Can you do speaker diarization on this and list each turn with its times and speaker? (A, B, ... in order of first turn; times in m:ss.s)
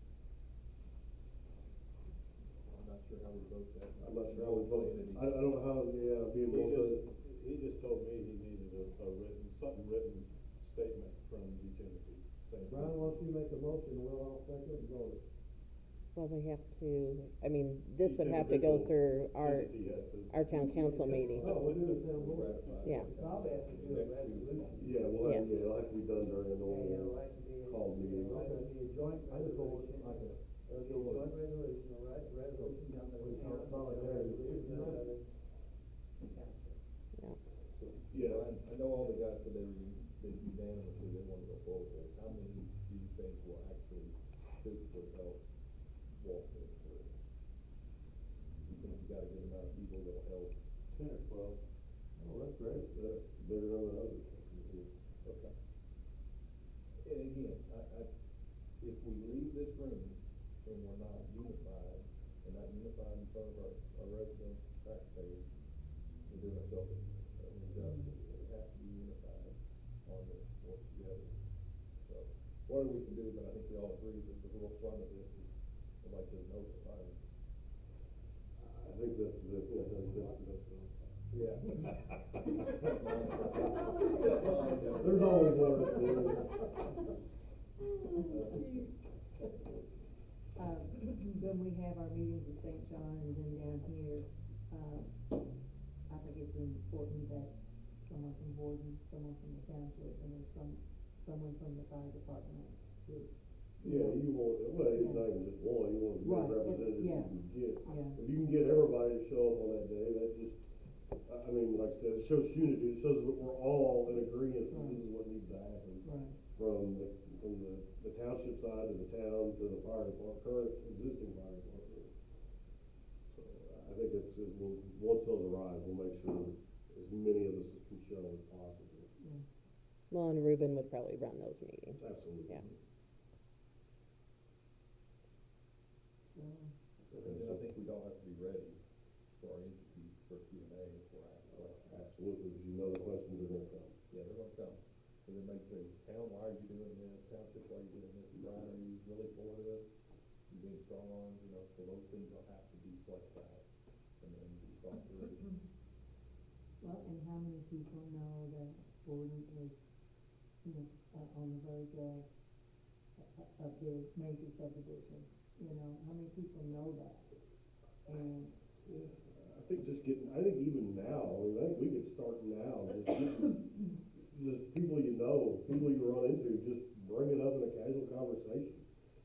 0:02.6-0:05.5 A
0:04.0-0:07.0 B
0:06.4-0:12.2 C
0:12.4-0:13.2 A
0:12.7-0:15.2 D
0:16.2-0:19.7 E
0:18.0-0:23.0 C
0:20.3-0:21.5 E
0:21.4-0:22.9 D
0:22.0-0:25.3 A
0:22.8-0:23.1 E
0:23.1-0:25.2 F
0:24.8-0:28.5 B
0:25.2-0:25.6 E
0:26.6-0:35.3 F
0:28.3-0:28.7 D
0:29.3-0:31.4 D
0:32.6-0:35.1 D
0:36.2-0:36.8 F
0:37.7-0:45.4 A
0:38.1-0:38.5 B
0:46.1-0:47.1 A
0:48.6-0:50.6 A
0:50.9-0:51.6 C
0:52.2-0:52.9 D
0:52.8-0:54.9 B
0:55.2-0:55.5 A
0:57.0-0:58.1 A
0:58.8-1:05.5 A
1:06.2-1:17.2 A
1:07.8-1:08.1 G
1:18.6-1:20.9 B
1:21.3-1:26.2 A
1:25.0-1:26.5 B
1:28.2-1:28.9 A
1:30.6-1:35.4 G
1:36.1-1:42.8 G
1:43.8-1:50.6 B
1:43.8-1:45.3 G
1:46.2-1:48.2 G
1:51.2-2:02.1 B
1:54.7-1:55.1 G
1:56.0-1:56.4 G
2:03.3-2:09.1 B
2:09.2-2:09.4 G
2:10.1-2:12.6 E
2:12.0-2:12.7 B
2:16.2-2:16.7 G
2:17.1-2:22.0 A
2:17.1-2:17.6 B
2:21.8-2:24.0 B
2:24.1-2:29.9 A
2:30.5-2:35.6 A
2:36.8-2:40.0 G
2:40.6-2:42.3 G
2:43.2-2:47.3 G
2:48.0-2:48.5 G
2:48.8-2:58.8 B